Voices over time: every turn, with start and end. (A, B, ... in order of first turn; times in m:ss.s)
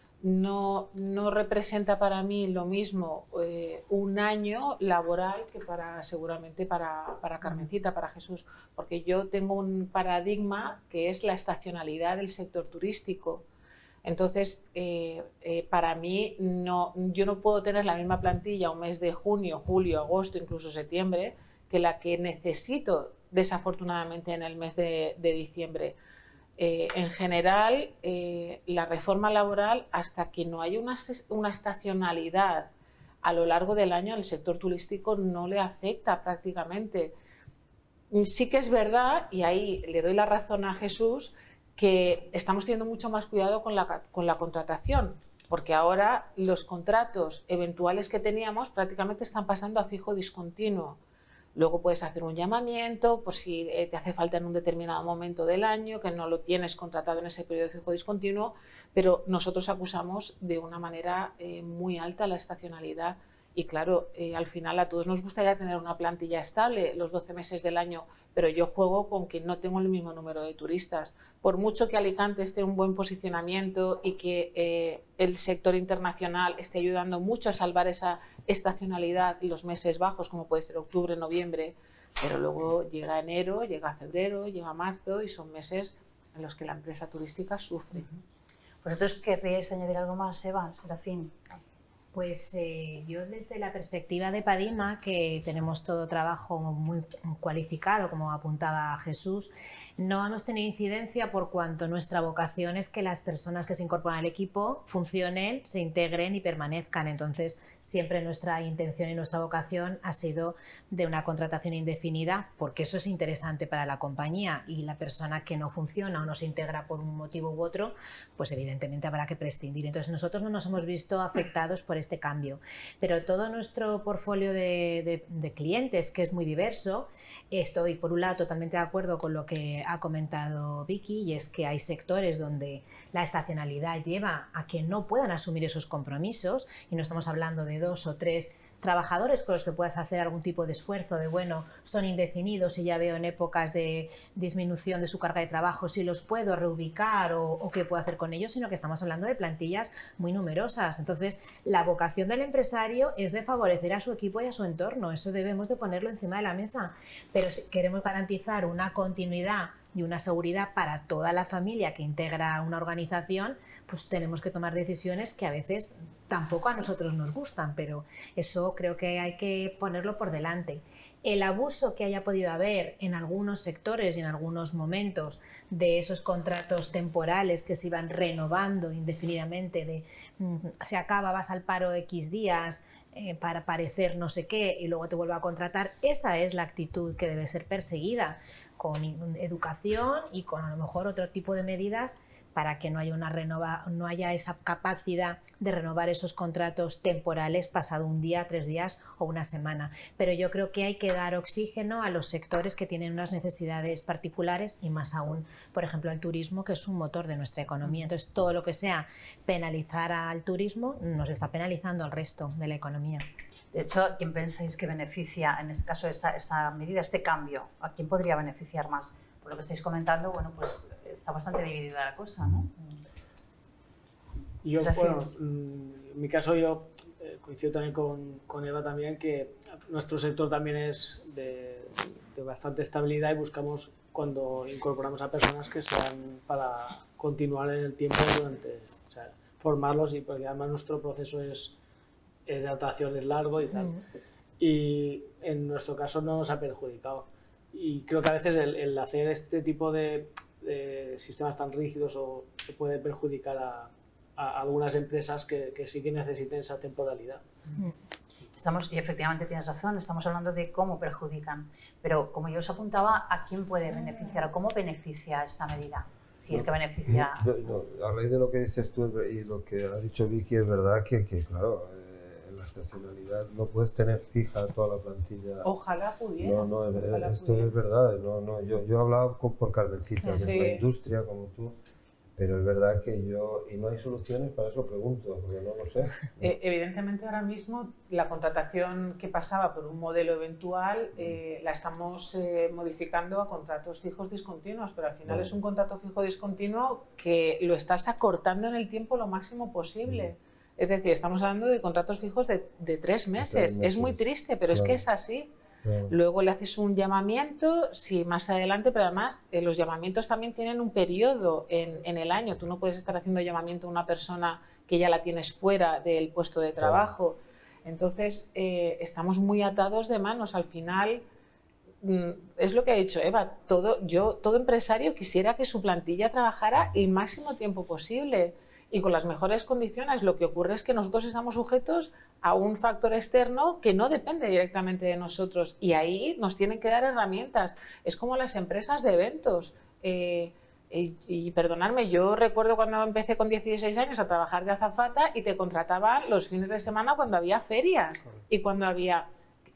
0:00.2-0:13.4 A
0:14.0-0:26.0 A
0:26.6-0:32.7 A
0:33.2-0:37.1 A
0:38.1-0:51.0 A
0:51.5-1:28.0 A
1:28.8-1:31.4 B
1:32.1-3:33.2 C
3:33.7-3:43.0 B
3:44.6-4:01.7 D
3:44.8-3:45.3 B
4:02.5-4:04.0 D
4:04.6-4:17.4 D
4:18.5-4:27.4 B
4:26.5-4:35.7 E
4:35.6-4:37.7 A
4:36.4-4:41.8 E
4:40.2-4:40.5 C
4:40.3-4:40.8 A
4:42.4-4:46.5 E
4:46.4-5:05.5 A
4:55.3-4:55.5 E
5:03.4-5:04.2 E
5:04.7-5:05.0 E
5:05.8-5:06.1 E
5:06.1-5:21.2 A
5:16.8-5:17.1 E
5:22.0-5:49.3 A